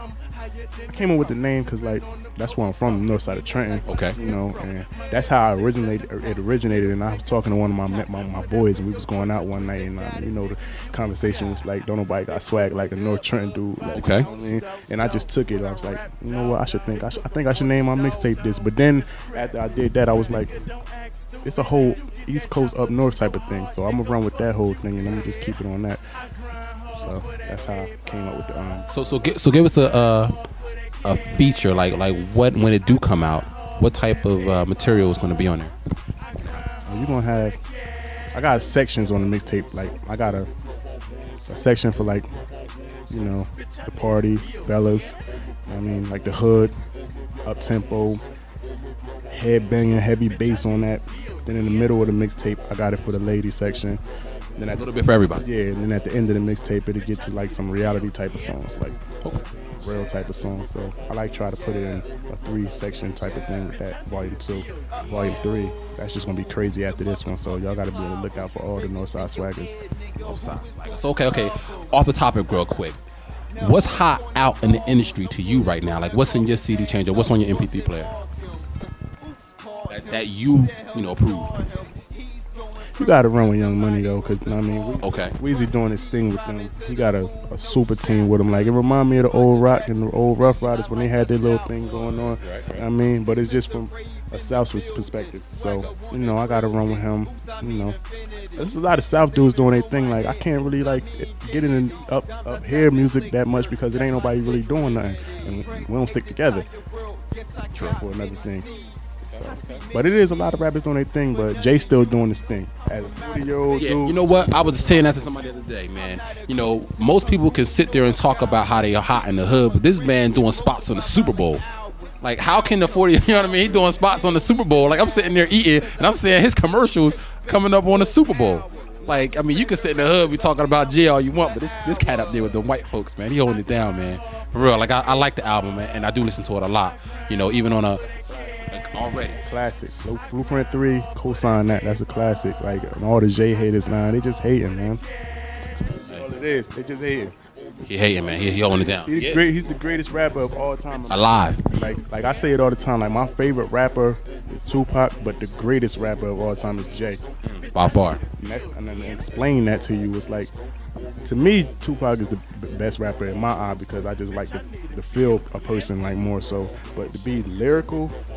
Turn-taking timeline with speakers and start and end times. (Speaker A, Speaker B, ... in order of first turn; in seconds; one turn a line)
Speaker A: 0.9-20.6
Speaker B: 3.9-4.2
Speaker B: 13.9-14.3
Speaker A: 21.4-26.0
Speaker A: 26.9-28.9
Speaker B: 28.9-30.4
Speaker B: 31.1-35.7
Speaker A: 36.6-37.6
Speaker A: 38.3-40.5
Speaker A: 41.4-42.3
Speaker A: 43.1-46.8
Speaker A: 47.5-48.2
Speaker A: 49.3-54.0
Speaker A: 54.6-59.1
Speaker B: 54.8-55.5
Speaker A: 59.8-69.8
Speaker B: 70.2-73.0
Speaker B: 73.6-78.2
Speaker B: 79.9-81.8
Speaker A: 83.0-98.0
Speaker B: 85.0-85.4
Speaker B: 92.4-92.8
Speaker A: 98.6-106.7
Speaker B: 107.7-108.0
Speaker A: 107.8-108.7
Speaker B: 109.3-109.9
Speaker A: 109.3-114.2
Speaker B: 113.8-121.7
Speaker B: 122.2-138.1
Speaker B: 138.7-139.6
Speaker A: 139.4-145.0
Speaker B: 145.9-146.2
Speaker A: 146.0-147.3
Speaker B: 147.8-149.4
Speaker A: 148.8-157.2
Speaker B: 151.1-151.6
Speaker B: 157.4-158.2
Speaker A: 158.4-160.5
Speaker A: 161.2-168.2